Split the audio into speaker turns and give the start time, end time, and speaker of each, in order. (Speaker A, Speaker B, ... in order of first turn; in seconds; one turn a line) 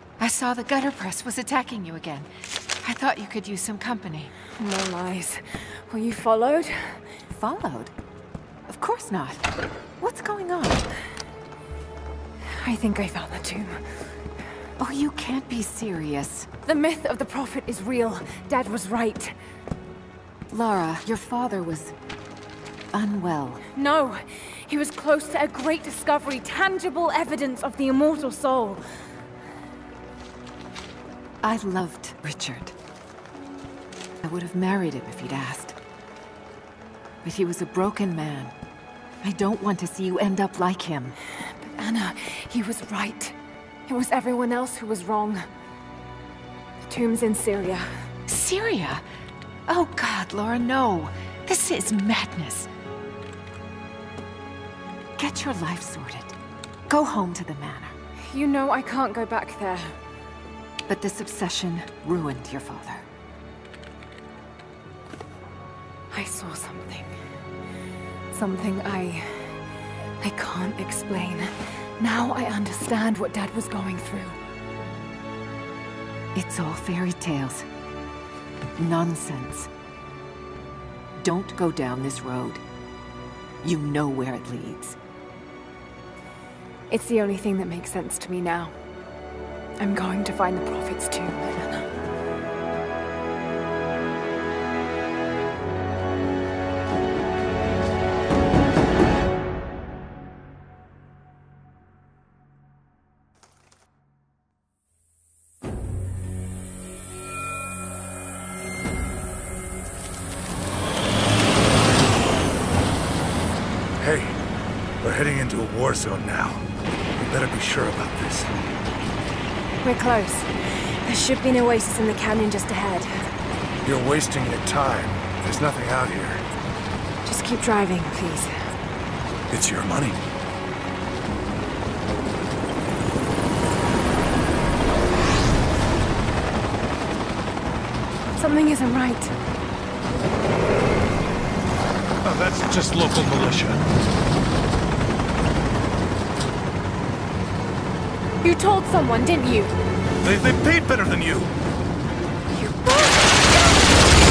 Speaker A: 0.2-2.3
Speaker A: 2.8-4.3
Speaker B: 4.6-7.0
Speaker A: 7.3-7.9
Speaker A: 8.7-10.9
Speaker B: 12.4-13.8
Speaker A: 14.8-16.5
Speaker B: 16.6-19.4
Speaker A: 20.5-21.9
Speaker A: 22.9-23.6
Speaker B: 23.8-28.8
Speaker A: 31.4-32.8
Speaker A: 34.2-35.8
Speaker A: 37.2-38.5
Speaker A: 39.2-41.2
Speaker B: 41.4-43.4
Speaker B: 43.9-45.5
Speaker B: 46.9-47.9
Speaker A: 48.3-49.0
Speaker A: 49.7-52.7
Speaker A: 55.2-56.4
Speaker A: 56.9-58.0
Speaker B: 58.2-60.0
Speaker A: 60.9-63.0
Speaker B: 66.1-67.1
Speaker B: 68.3-69.6
Speaker B: 70.2-74.4
Speaker A: 76.3-77.7
Speaker A: 78.8-79.7
Speaker A: 81.2-82.6
Speaker A: 83.6-85.0
Speaker B: 86.9-88.8
Speaker B: 89.8-91.9
Speaker C: 114.0-114.4
Speaker C: 115.0-116.6
Speaker C: 117.3-118.5
Speaker B: 119.8-120.5
Speaker B: 121.0-123.1
Speaker C: 123.8-126.4
Speaker B: 127.2-128.5
Speaker C: 129.5-130.2
Speaker B: 138.4-139.3
Speaker C: 142.2-143.8
Speaker B: 148.4-149.8
Speaker C: 150.2-151.5
Speaker B: 152.6-153.7